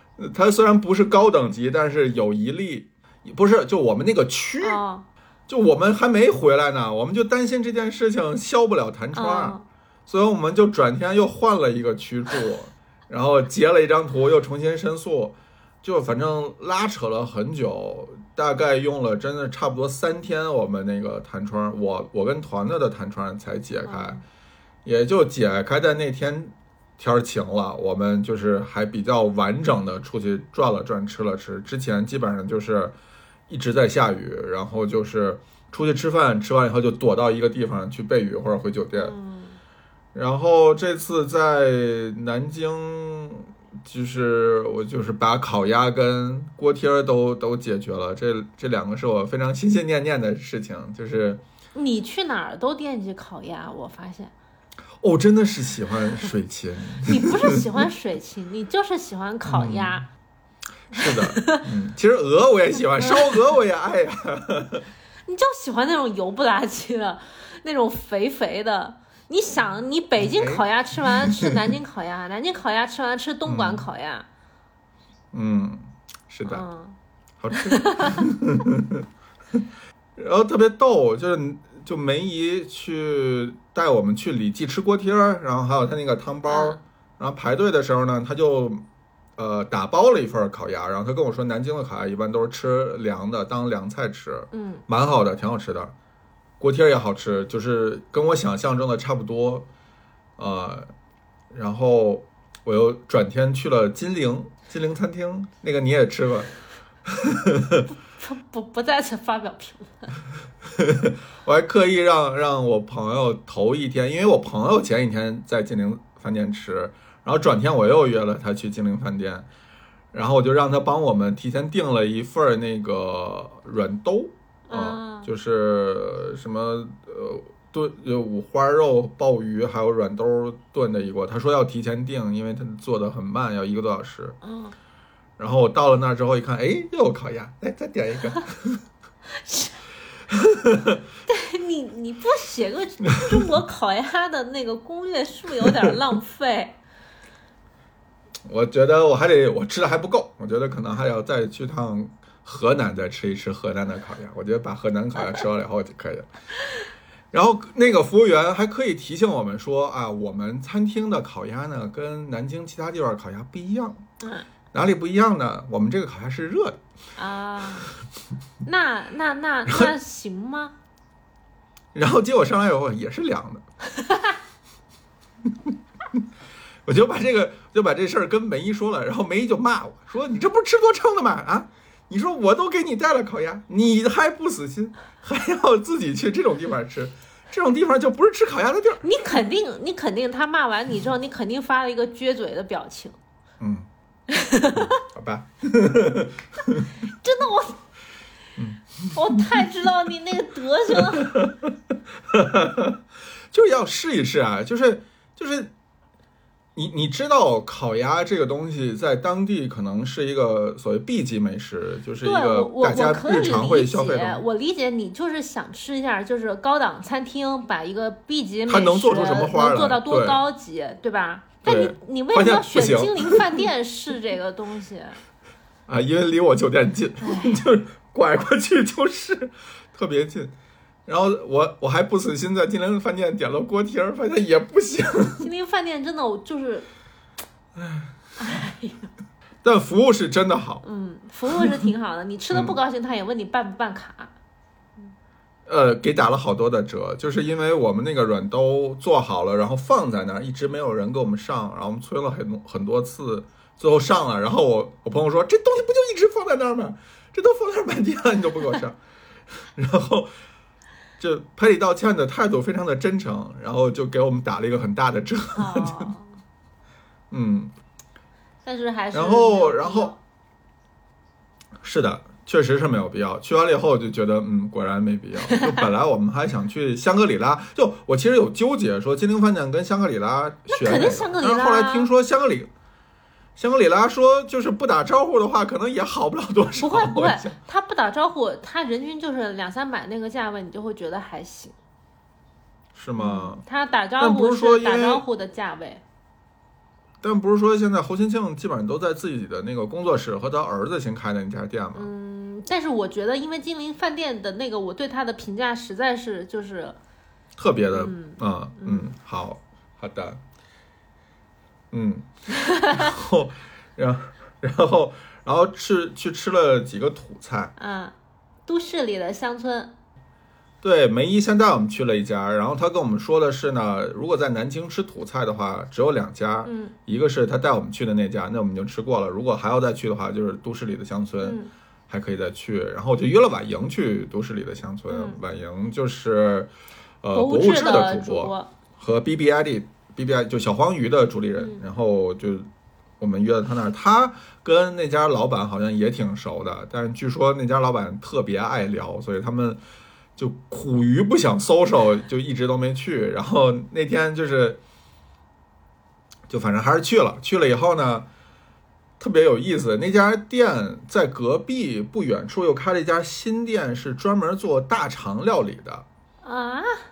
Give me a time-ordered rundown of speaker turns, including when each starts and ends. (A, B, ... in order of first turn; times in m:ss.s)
0:00.2-0:04.8 A
0:04.6-0:05.0 B
0:05.5-0:09.6 A
0:09.1-0:09.6 B
0:10.1-0:24.2 A
0:23.8-0:24.2 B
0:24.8-0:32.9 A
0:33.5-0:39.1 A
0:38.9-0:39.6 B
0:40.1-0:51.4 A
0:51.7-0:54.3 B
0:55.0-0:57.6 A
0:57.0-1:00.1 B
0:59.4-1:00.0 A
1:00.9-1:04.9 A
1:00.9-1:01.6 B
1:02.9-1:03.4 B
1:05.2-1:14.3 B
1:10.2-1:10.6 A
1:11.2-1:11.6 A
1:13.4-1:13.9 A
1:15.3-1:16.6 A
1:16.4-1:17.0 B
1:17.4-1:19.0 A
1:17.6-1:18.3 B
1:20.2-1:28.8 A
1:26.5-1:26.8 B
1:29.4-1:35.9 A
1:34.5-1:34.8 B
1:36.6-1:39.6 A
1:40.4-1:40.9 A
1:41.5-1:46.5 A
1:47.1-1:47.9 A
1:48.2-1:50.1 B
1:50.7-1:59.5 A
2:00.1-2:14.4 A
2:04.7-2:05.3 B
2:14.4-2:14.8 B
2:15.4-2:18.8 A
2:19.3-2:19.8 B
2:20.3-2:21.0 A
2:21.3-2:26.8 B
2:28.5-2:36.3 A
2:37.3-2:44.0 A
2:44.2-2:44.5 B
2:44.7-2:46.8 A
2:47.2-2:47.9 B
2:48.6-2:50.7 B
2:51.9-2:53.6 A
2:53.9-2:54.4 B
2:55.7-2:56.2 A
2:56.8-3:09.0 A
3:09.0-3:13.2 B
3:13.6-3:13.9 A
3:14.3-3:15.0 B
3:14.7-3:16.9 A
3:17.0-3:17.8 B
3:18.6-3:19.4 A
3:19.1-3:21.4 B
3:21.1-3:21.7 A
3:22.3-3:23.0 A
3:23.5-3:25.7 A
3:26.8-3:34.4 A
3:32.2-3:45.2 B
3:38.7-3:40.4 A
3:41.6-3:43.6 A
3:45.9-3:50.5 A
3:47.2-3:47.6 B
3:51.1-3:55.5 A
3:55.4-3:56.9 B
3:57.8-3:58.1 A
3:58.4-3:59.1 B
3:59.6-4:00.8 A
4:00.8-4:04.3 B
4:02.5-4:02.8 A
4:05.7-4:19.0 A
4:19.6-4:20.3 A
4:21.2-4:26.1 A
4:25.5-4:26.4 B
4:27.3-4:27.7 A
4:28.6-4:30.2 B
4:29.1-4:30.1 A
4:31.8-4:42.7 A
4:35.5-4:35.8 B
4:40.7-4:42.1 B
4:43.6-4:47.6 A
4:46.8-4:51.7 B
4:52.9-4:53.6 A
4:53.2-4:56.0 B
4:54.2-4:55.2 A
4:57.2-5:02.1 A
5:01.9-5:07.0 B
5:07.6-5:10.4 A
5:07.9-5:09.1 B
5:11.9-5:12.3 A
5:12.7-5:13.1 B
5:12.8-5:17.7 A
5:17.8-5:18.1 B
5:18.6-5:19.9 B
5:20.8-5:36.7 A
5:26.6-5:26.9 B
5:31.4-5:31.7 B
5:35.1-5:35.4 B
5:37.2-5:42.7 A
5:37.3-5:38.7 B
5:41.6-5:41.8 B
5:43.2-5:49.8 A
5:50.4-5:54.8 A
5:56.5-5:58.3 A
5:59.2-6:06.0 A
6:06.4-6:07.0 B